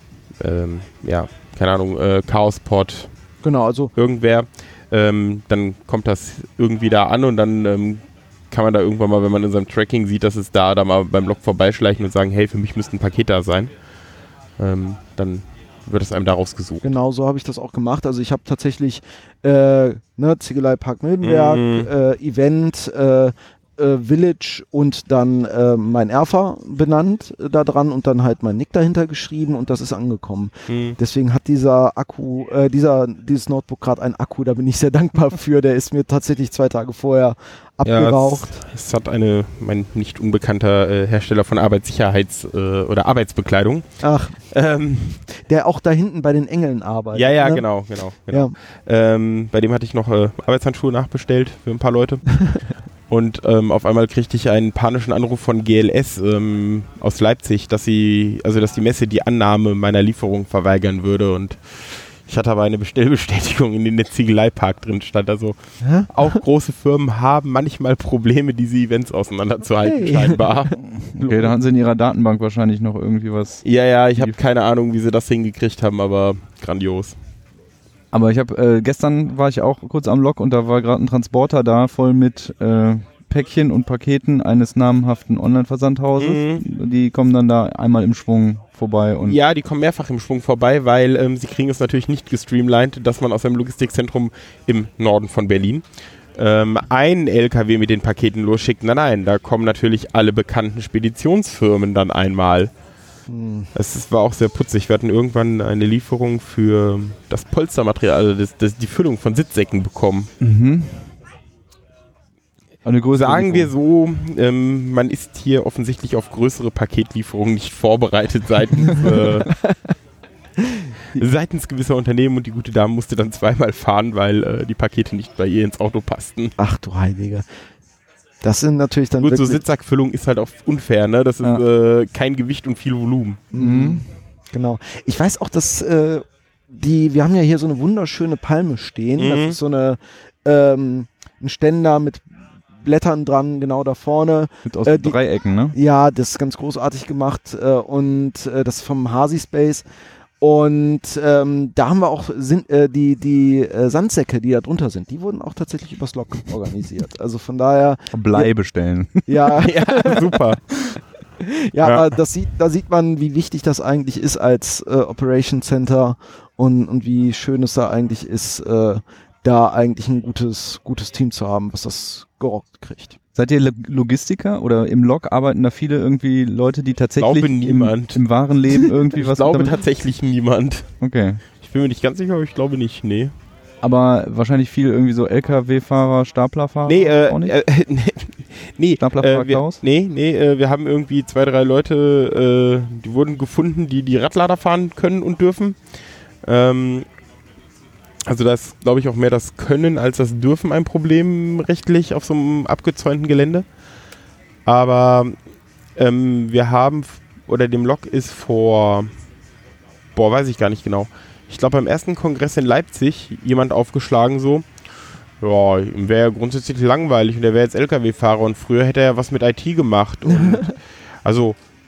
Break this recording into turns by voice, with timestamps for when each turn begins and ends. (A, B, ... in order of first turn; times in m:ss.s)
0:00.4-0:03.1 A
0:03.4-0:03.9 B
0:03.9-0:13.9 A
0:14.6-0:16.9 A
0:16.8-0:38.6 B
0:21.2-0:21.9 A
0:30.7-0:31.0 A
0:37.8-0:45.2 A
0:44.0-0:44.4 B
0:45.4-0:48.5 B
0:47.1-1:11.4 A
1:05.8-1:06.4 B
1:09.8-1:10.7 B
1:10.9-1:14.3 C
1:13.6-1:17.2 A
1:18.1-1:29.4 C
1:26.2-1:26.6 A
1:29.2-1:42.7 A
1:43.3-1:43.7 B
1:43.7-1:50.3 A
1:50.4-1:51.2 C
1:52.8-1:53.7 C
1:53.1-1:59.5 A
1:58.9-1:59.8 B
2:01.2-2:06.6 A
2:06.6-2:07.4 B
2:08.4-2:09.6 B
2:09.2-2:13.4 A
2:13.5-2:25.2 B
2:13.5-2:14.1 C
2:19.2-2:19.6 A
2:24.6-2:25.8 C
2:25.7-2:29.8 B
2:30.4-2:38.5 B
2:38.1-2:39.6 C
2:39.2-2:40.2 B
2:39.6-2:40.8 A
2:41.4-2:53.2 B
2:41.8-2:42.1 A
2:53.3-2:59.8 C
2:57.2-2:58.4 A
2:59.2-3:01.0 A
3:01.0-3:01.4 C
3:01.6-3:03.4 A
3:03.8-3:07.6 C
3:06.8-3:17.0 A
3:09.0-3:09.8 C
3:18.2-3:23.7 A
3:24.6-3:25.4 A
3:26.0-3:29.1 A
3:30.1-3:34.7 A
3:35.4-3:41.6 A
3:40.3-3:40.7 B